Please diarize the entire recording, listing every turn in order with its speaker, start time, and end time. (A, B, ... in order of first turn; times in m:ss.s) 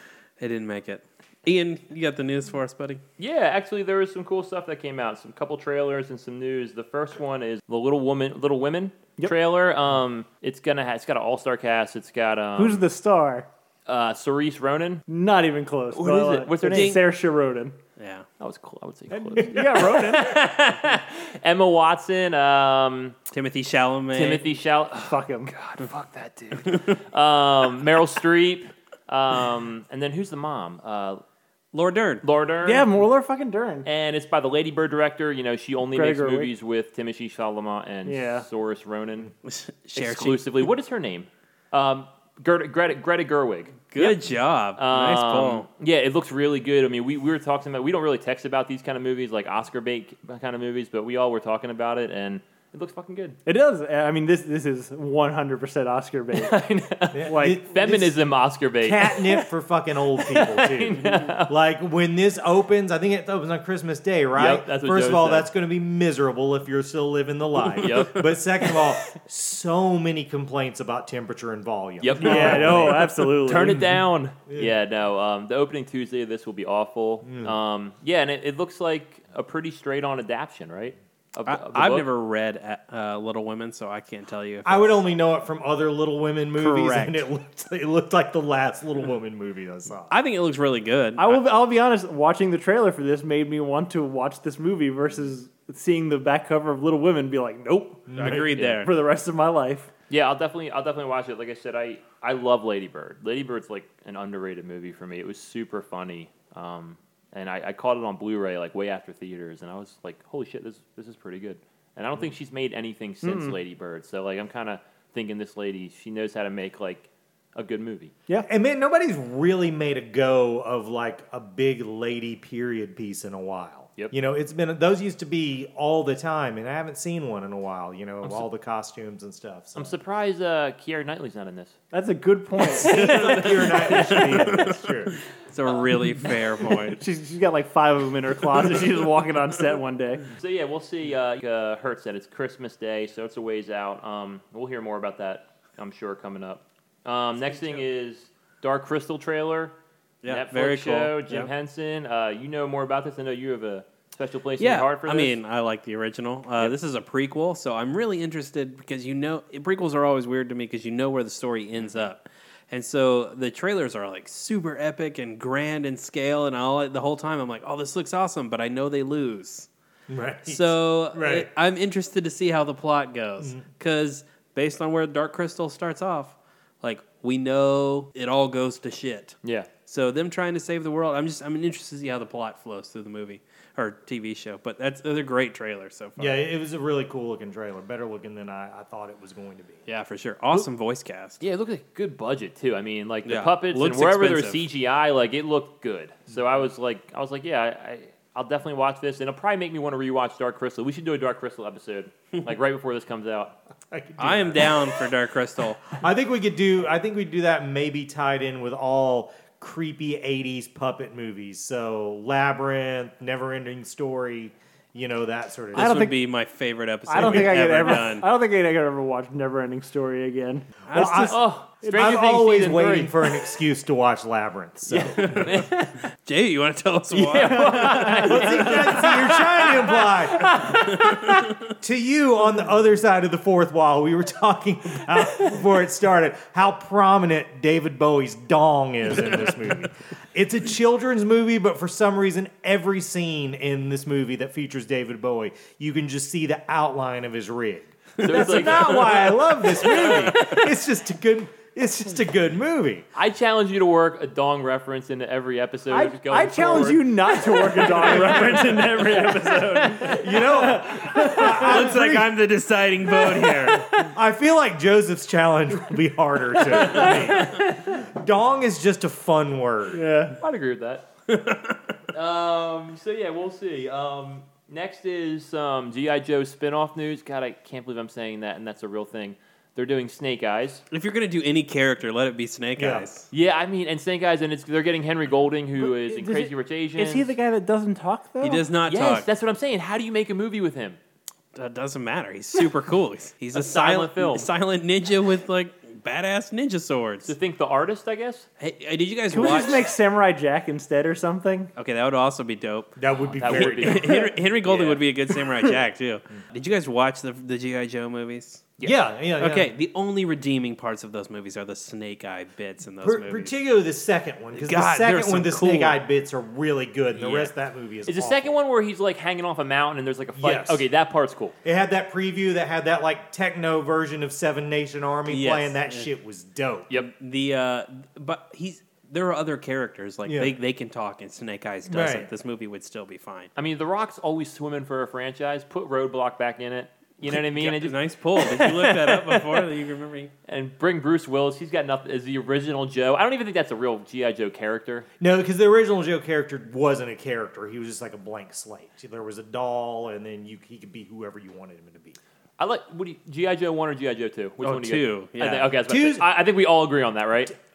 0:00.4-0:03.0 A
0:03.2-0:12.8 B
0:12.6-0:13.5 C
0:13.9-0:15.0 B
0:15.1-0:17.8 C
0:15.9-0:17.0 B
0:16.6-0:17.0 A
0:18.0-0:18.3 A
0:18.4-0:23.2 B
0:19.1-0:20.4 C
0:19.4-0:19.6 D
0:23.3-0:24.5 A
0:24.1-0:31.2 B
0:25.0-0:25.5 C
0:31.7-0:32.2 A
0:32.2-0:33.0 B
0:32.6-0:33.9 C
0:33.8-0:39.3 B
0:35.9-0:36.5 C
0:38.0-0:38.5 C
0:39.4-0:40.6 A
0:40.0-0:44.2 B
0:43.9-0:45.7 A
0:44.8-0:53.4 B
0:53.4-0:56.6 C
0:56.3-0:59.5 B
0:57.1-0:58.2 D
0:57.3-0:57.6 C
0:58.8-1:13.1 D
1:00.2-1:01.5 B
1:04.3-1:05.5 B
1:07.8-1:08.9 B
1:12.0-1:22.1 B
1:12.2-1:13.8 C
1:14.5-1:14.8 D
1:17.2-1:17.6 D
1:21.5-1:25.0 A
1:24.6-1:30.1 D
1:26.6-1:27.3 A
1:30.1-1:31.4 A
1:31.2-1:39.9 C
1:38.1-1:38.5 D
1:38.2-1:38.9 A
1:38.6-1:38.8 B
1:40.1-1:58.1 B
1:53.2-1:53.6 C
1:58.4-2:10.0 D
2:08.2-2:08.5 B
2:09.8-2:11.8 B
2:11.9-2:14.4 C
2:12.7-2:15.2 D
2:13.0-2:14.6 A
2:15.5-2:17.0 A
2:16.8-2:20.2 C
2:20.4-2:29.8 B
2:30.2-2:31.5 A
2:30.3-2:35.4 B
2:34.6-2:49.7 A
2:50.1-2:51.5 D
2:50.5-3:06.4 A
2:53.4-2:53.6 D
2:59.4-2:59.7 B
3:06.2-3:09.8 D
3:09.9-3:11.4 A
3:11.4-3:23.6 B
3:13.2-3:14.7 A
3:23.9-3:25.1 D
3:24.2-3:26.0 A
3:26.0-3:36.1 D
3:35.7-3:38.3 A
3:35.7-3:36.2 C
3:37.1-3:42.2 C
3:37.1-3:38.0 D
3:40.9-3:41.4 A
3:40.9-3:45.5 D
3:41.3-3:43.1 B
3:44.9-3:45.9 B
3:45.0-3:45.7 A
3:46.2-3:48.2 A
3:47.1-3:50.6 B
3:47.4-3:49.1 C
3:47.9-3:50.6 D
3:50.4-3:51.3 C
3:51.6-4:13.0 D
4:08.2-4:10.6 B
4:08.2-4:09.2 A
4:13.2-4:19.1 B
4:15.9-4:22.0 C
4:20.0-4:22.3 D
4:21.6-4:23.9 A
4:23.1-4:24.1 C
4:23.9-4:30.0 D
4:26.7-4:27.6 C
4:29.9-4:30.4 C
4:30.4-4:31.0 B
4:31.3-4:31.8 A
4:32.1-4:40.8 B
4:40.9-4:43.3 A
4:42.8-4:43.1 D
4:43.3-4:47.3 B
4:45.8-4:48.7 C
4:48.4-4:49.3 A
4:48.9-4:51.0 B
4:51.6-4:57.4 A
4:53.5-4:54.5 B
4:57.2-4:58.5 B
4:58.6-4:59.9 A
4:59.3-5:01.7 C
5:01.8-5:08.7 A
5:03.0-5:04.1 D
5:03.4-5:05.0 B
5:08.8-5:09.1 B
5:08.8-5:09.7 D
5:09.4-5:13.6 A
5:13.0-5:18.6 D
5:14.5-5:16.0 A
5:17.1-5:21.6 B
5:20.4-5:20.8 D
5:21.6-5:26.9 D
5:25.3-5:26.1 A
5:27.0-5:33.5 A
5:30.3-5:30.6 D
5:31.9-5:32.3 D
5:33.6-5:39.7 B
5:37.3-5:40.3 A
5:40.5-5:45.1 B
5:45.2-5:52.2 D
5:52.6-5:57.5 B
5:54.6-5:55.8 A
5:55.9-5:56.3 D